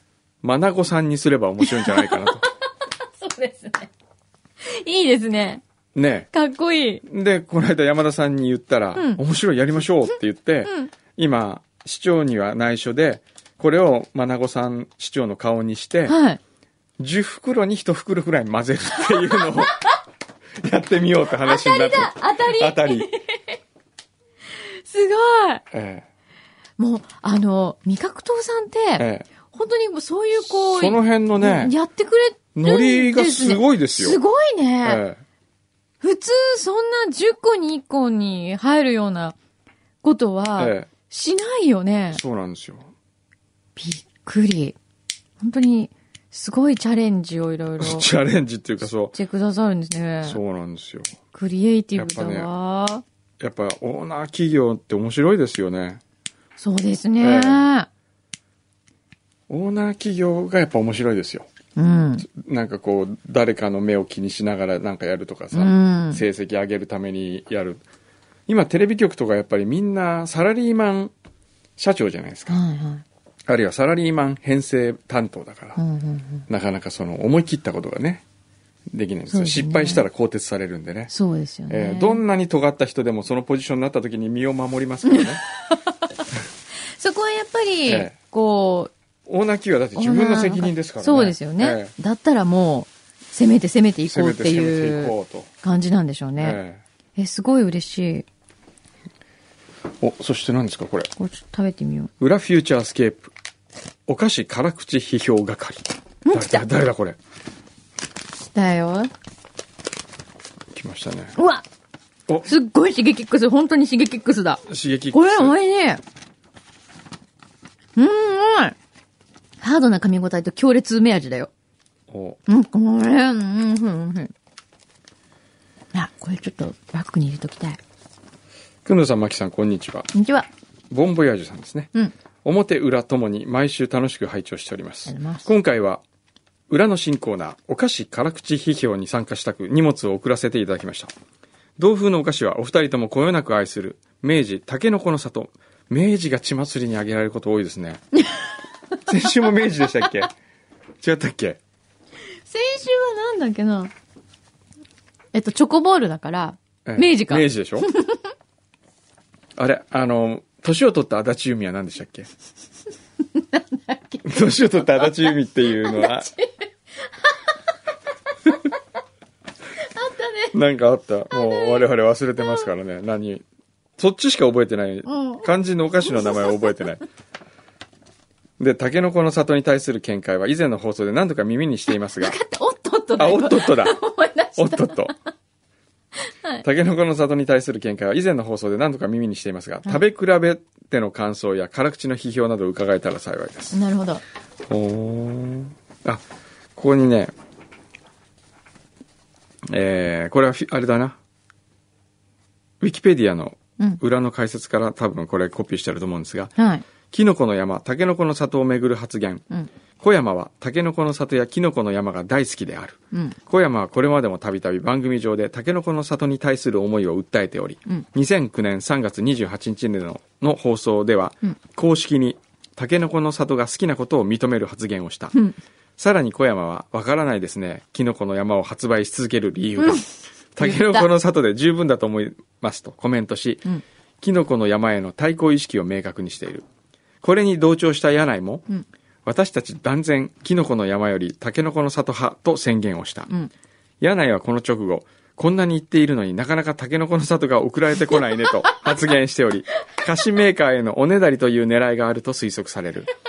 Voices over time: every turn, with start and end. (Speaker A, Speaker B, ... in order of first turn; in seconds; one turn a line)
Speaker A: 0.4-2.4
Speaker B: 1.6-2.2
Speaker B: 3.2-3.9
Speaker B: 4.6-5.6
Speaker A: 5.9-6.3
Speaker B: 6.3-7.0
Speaker A: 7.0-16.1
Speaker B: 8.9-9.2
Speaker B: 10.7-10.9
Speaker B: 16.1-16.4
Speaker A: 17.0-19.8
Speaker A: 20.6-23.1
Speaker B: 21.4-23.6
Speaker B: 24.9-25.6
Speaker A: 25.7-26.1
Speaker B: 26.8-35.0
Speaker A: 29.0-29.3
Speaker A: 30.7-31.7
Speaker A: 32.5-34.2
Speaker A: 34.8-35.2
Speaker B: 36.0-39.3
Speaker B: 40.0-42.2
Speaker A: 40.6-40.9
Speaker A: 42.1-42.9
Speaker B: 43.8-44.8
Speaker B: 45.4-48.1
Speaker A: 47.8-49.1
Speaker B: 49.1-50.4
Speaker A: 50.2-51.1
Speaker B: 51.3-53.0
Speaker A: 51.9-52.5
Speaker A: 53.4-56.0
Speaker B: 56.6-57.9
Speaker A: 57.2-57.6
Speaker A: 59.5-61.5
Speaker B: 61.8-62.3
Speaker A: 62.3-67.8
Speaker B: 65.5-66.2
Speaker A: 68.5-71.1
Speaker A: 71.8-72.6
Speaker B: 72.5-73.0
Speaker A: 73.5-75.8
Speaker B: 75.8-76.5
Speaker A: 76.5-78.2
Speaker A: 78.9-81.1
Speaker B: 79.3-80.0
Speaker B: 81.1-82.2
Speaker A: 81.7-85.4
Speaker B: 85.0-86.0
Speaker B: 87.0-88.9
Speaker A: 87.9-88.1
Speaker A: 89.2-91.9
Speaker B: 89.9-96.6
Speaker A: 94.0-95.5
Speaker A: 96.4-96.8
Speaker B: 97.2-98.2
Speaker A: 100.0-101.1
Speaker B: 101.2-102.1
Speaker A: 102.2-103.3
Speaker A: 104.1-107.2
Speaker B: 106.2-106.6
Speaker B: 108.5-109.1
Speaker A: 110.7-111.3
Speaker B: 111.3-111.6
Speaker B: 112.4-114.6
Speaker A: 114.6-115.5
Speaker B: 115.1-116.0
Speaker B: 118.0-118.7
Speaker B: 119.6-121.5
Speaker A: 122.1-122.4
Speaker B: 122.5-124.3
Speaker B: 125.9-127.8
Speaker A: 128.8-130.1
Speaker B: 130.1-130.5
Speaker A: 130.9-131.9
Speaker A: 132.4-136.0
Speaker B: 135.1-135.5
Speaker A: 136.7-141.1
Speaker A: 141.8-148.0
Speaker A: 149.1-150.3
Speaker A: 151.0-151.6
Speaker B: 152.5-153.9
Speaker B: 155.3-158.2
Speaker A: 156.8-157.9
Speaker A: 159.6-162.3
Speaker B: 163.3-167.5
Speaker A: 164.2-166.3
Speaker B: 169.8-170.5
Speaker A: 170.5-173.4
Speaker B: 171.3-172.7
Speaker A: 174.0-177.0
Speaker B: 175.1-175.5
Speaker B: 176.0-176.8
Speaker A: 178.6-182.4
Speaker B: 182.2-185.1
Speaker A: 183.2-184.0
Speaker A: 184.6-185.1
Speaker B: 186.3-186.6
Speaker A: 186.6-193.8
Speaker B: 193.7-194.2
Speaker A: 194.7-196.2
Speaker A: 196.8-197.3
Speaker A: 199.7-201.2
Speaker A: 202.8-206.5
Speaker B: 206.6-206.8
Speaker A: 207.1-209.4
Speaker A: 210.0-225.3
Speaker B: 213.1-213.4
Speaker A: 226.0-233.7
Speaker B: 229.8-230.1
Speaker B: 230.6-231.1
Speaker A: 234.2-236.7
Speaker A: 237.2-238.7
Speaker A: 239.2-243.3
Speaker A: 244.0-253.1